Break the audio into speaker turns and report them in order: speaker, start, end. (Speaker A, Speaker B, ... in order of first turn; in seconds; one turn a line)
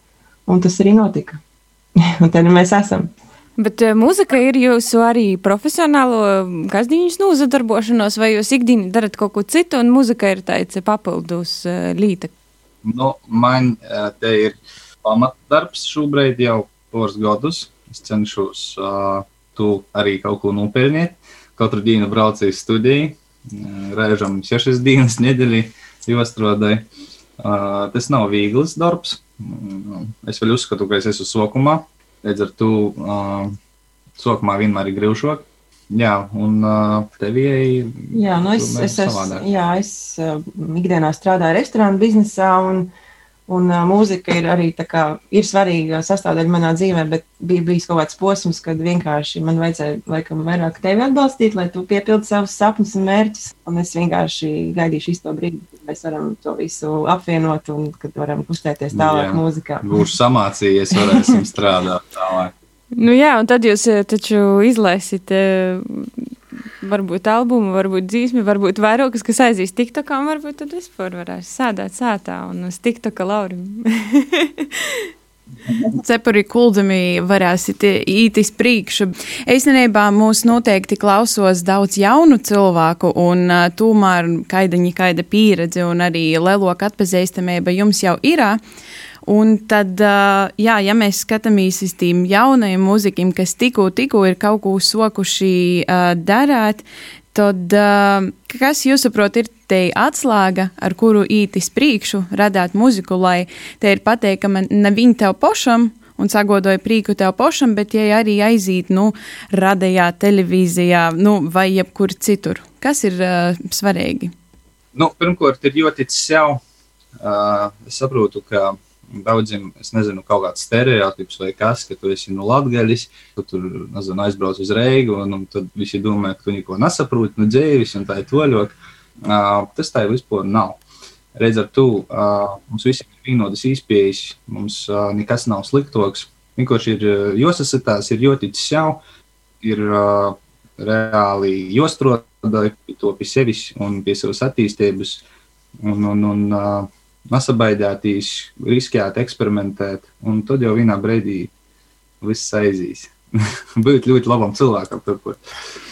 Speaker A: 0.5-1.4
Speaker A: 2.0-3.1
Speaker B: 3.6-12.3
Speaker C: 12.8-26.9
Speaker C: 27.4-33.5
Speaker C: 34.2-39.5
Speaker A: 38.1-42.9
Speaker A: 43.5-60.0
Speaker C: 58.9-62.5
Speaker A: 60.9-61.2
Speaker B: 62.9-66.3
Speaker B: 66.8-75.1
Speaker D: 75.9-88.6
Speaker D: 89.2-114.3
Speaker C: 114.9-116.6
Speaker C: 117.2-130.8
Speaker C: 131.4-139.0
Speaker C: 139.6-145.2
Speaker C: 145.8-151.5
Speaker C: 152.2-153.1
Speaker C: 153.8-155.4